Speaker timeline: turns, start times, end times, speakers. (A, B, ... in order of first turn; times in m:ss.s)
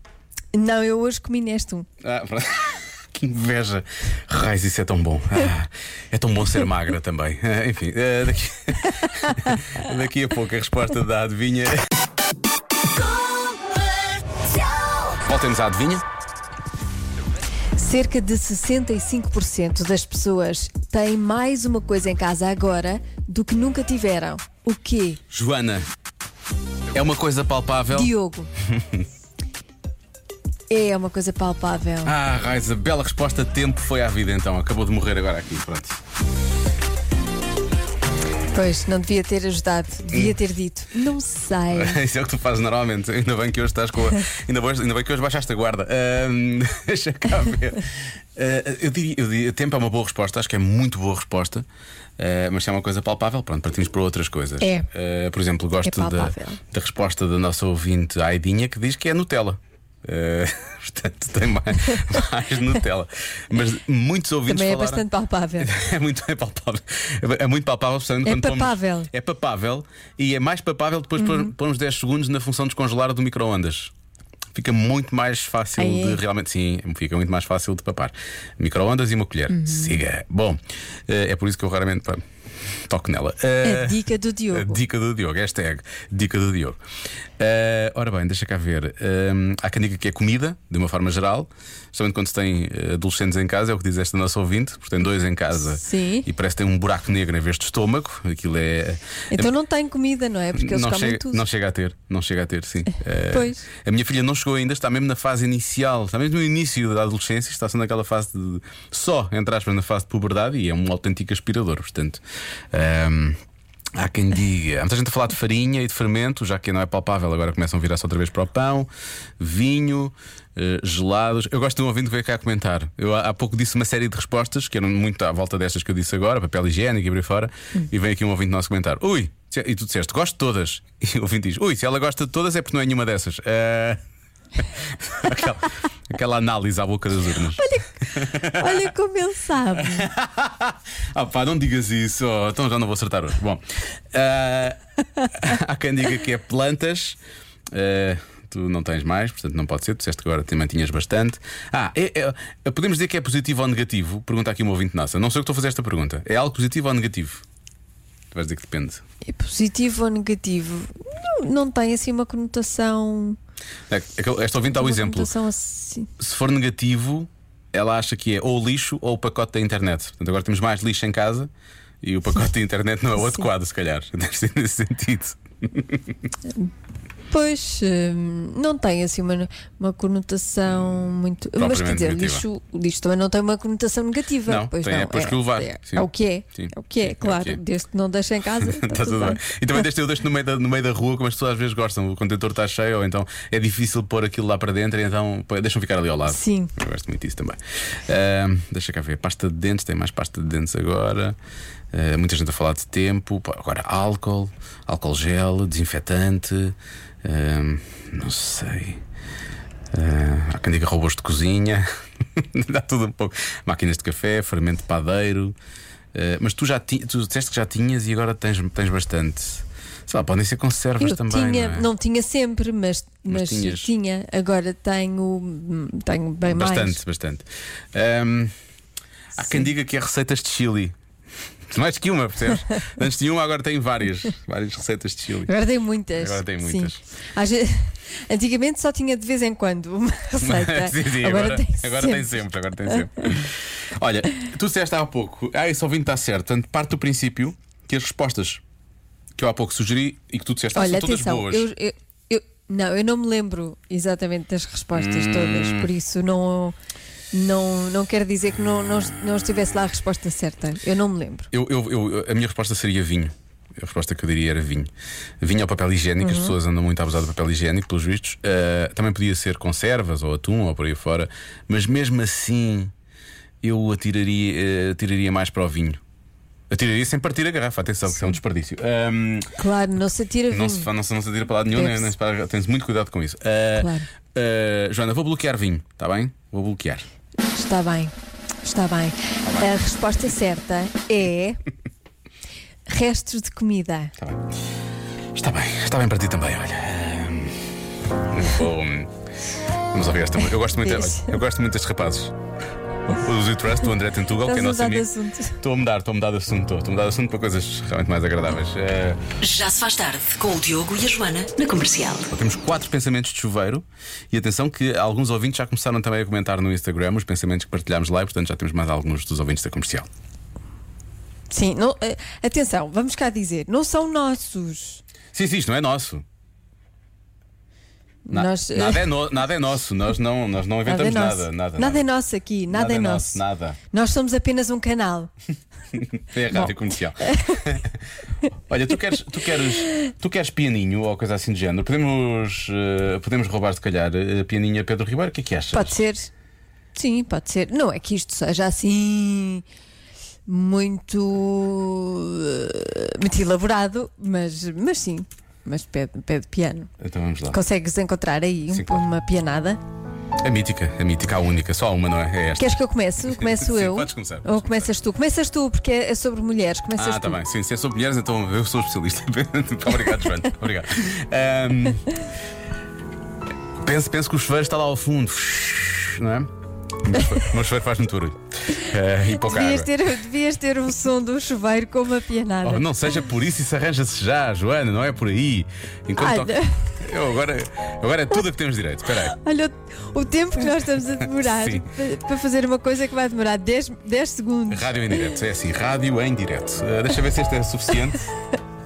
0:00.5-0:01.9 A
0:02.0-0:11.9 B
0:15.1-0:16.0 B
0:17.8-0:25.2 A
0:25.3-0:25.9 B
0:26.9-0:29.1 B
0:27.9-0:28.5 A
0:30.7-0:32.1 A
0:32.0-0:36.0 B
0:38.5-0:42.0 A
0:40.1-0:40.4 B
0:41.7-0:51.6 B
0:52.2-1:05.0 B
0:54.6-0:54.9 A
0:55.8-0:56.6 A
1:04.5-1:05.7 A
1:05.6-1:13.9 B
1:08.2-1:09.1 A
1:11.2-1:11.5 A
1:14.5-1:26.8 B
1:15.8-1:16.2 A
1:19.5-1:20.0 A
1:23.6-1:24.8 A
1:27.4-1:39.5 B
1:35.8-1:36.3 A
1:39.3-1:41.4 A
1:40.5-1:53.4 B
1:43.3-1:43.6 A
1:53.9-2:14.0 B
2:14.5-2:18.9 B
2:17.6-2:20.0 A
2:19.8-2:24.8 B
2:25.3-2:27.2 B
2:27.7-2:37.4 B
2:38.3-2:39.0 B
2:39.2-2:43.4 A
2:43.9-2:45.3 B
2:44.7-2:46.1 A
2:46.2-2:51.5 B
2:52.0-2:56.1 B
2:57.3-3:09.4 A
3:01.6-3:02.4 B
3:04.4-3:07.6 B
3:08.6-3:21.4 B
3:16.3-3:16.7 A
3:21.9-3:29.0 B
3:29.9-3:35.5 B
3:36.1-3:41.9 B
3:41.0-3:47.0 A
3:43.3-3:43.9 B
3:46.5-3:48.5 B
3:49.4-3:49.7 A
3:49.4-3:51.0 B
3:51.7-3:55.5 B
3:55.5-4:03.4 A
3:56.2-3:57.0 B
4:00.4-4:08.6 B
4:09.4-4:11.7 B
4:10.7-4:16.8 A
4:14.9-4:15.9 B
4:17.3-4:21.5 A
4:21.5-4:24.9 B
4:25.4-4:32.9 B
4:26.2-4:26.6 A
4:33.6-4:36.0 B
4:36.7-4:39.5 B
4:39.6-4:40.9 A
4:40.5-4:47.1 B
4:41.7-4:42.1 A
4:43.8-4:44.1 A
4:47.5-4:48.1 A
4:48.6-4:51.6 A
4:49.4-4:49.7 B
4:52.9-4:54.1 A
4:54.2-4:54.5 B
4:55.3-4:59.1 B
4:59.9-5:02.4 B
5:00.7-5:01.4 A
5:03.1-5:09.3 B
5:04.4-5:05.6 A
5:09.4-5:12.3 C
5:12.3-5:20.1 B
5:21.5-5:25.0 A
5:25.3-5:26.2 B
5:28.2-5:29.1 A
5:28.3-5:32.0 B
5:30.8-5:33.4 A
5:32.7-5:33.8 B
5:33.9-5:35.3 A
5:35.9-5:38.0 B
5:36.5-5:37.8 A
5:38.7-5:45.9 B
5:45.7-5:46.3 A
5:46.9-5:49.6 A
5:50.4-5:56.9 A
5:57.0-5:57.6 B
5:57.5-5:59.8 A
5:58.7-5:59.0 B
6:00.4-6:04.9 B
6:02.6-6:07.4 A
6:07.0-6:12.2 B
6:13.8-6:19.9 B
6:18.8-6:22.9 A
6:22.6-6:29.4 B
6:26.2-6:26.9 A
6:29.2-6:35.3 A
6:31.0-6:31.9 B
6:34.7-6:38.2 B